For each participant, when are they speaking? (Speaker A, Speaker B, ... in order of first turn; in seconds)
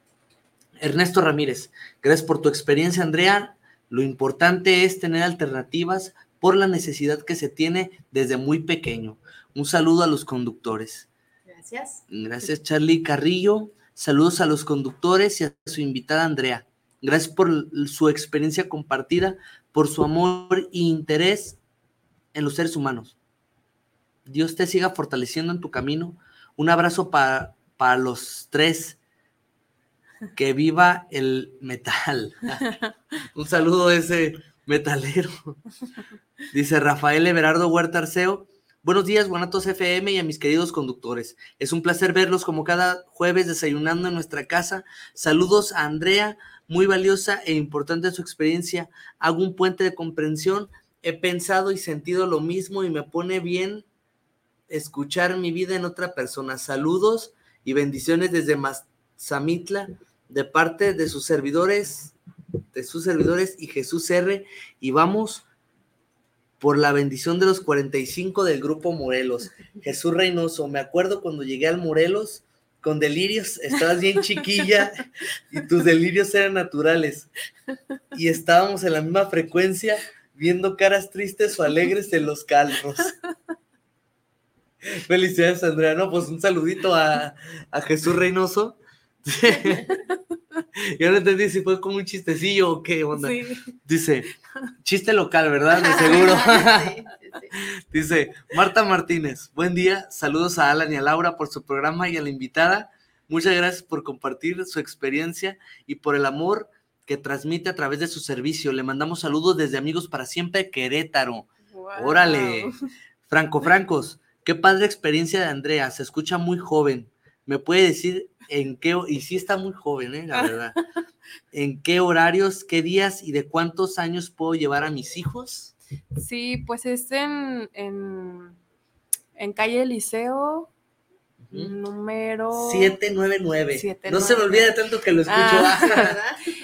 Speaker A: 0.8-11.1, 12.1-21.6, 22.3-23.2, 24.3-29.0, 30.4-32.7, 33.4-35.6, 36.5-53.9, 54.7-62.1, 62.7-65.5, 66.6-77.3, 78.1-83.2, 84.8-89.9, 90.8-94.3, 94.8-97.0, 97.5-112.7, 113.3-120.8, 121.5-125.7, 131.4-131.7, 132.5-136.2
Speaker B: 11.5-12.0, 95.7-97.5, 135.8-136.5
Speaker C: 93.2-93.7, 111.7-112.7, 126.2-128.6, 129.4-130.7, 131.5-133.0, 133.7-134.8, 135.3-136.1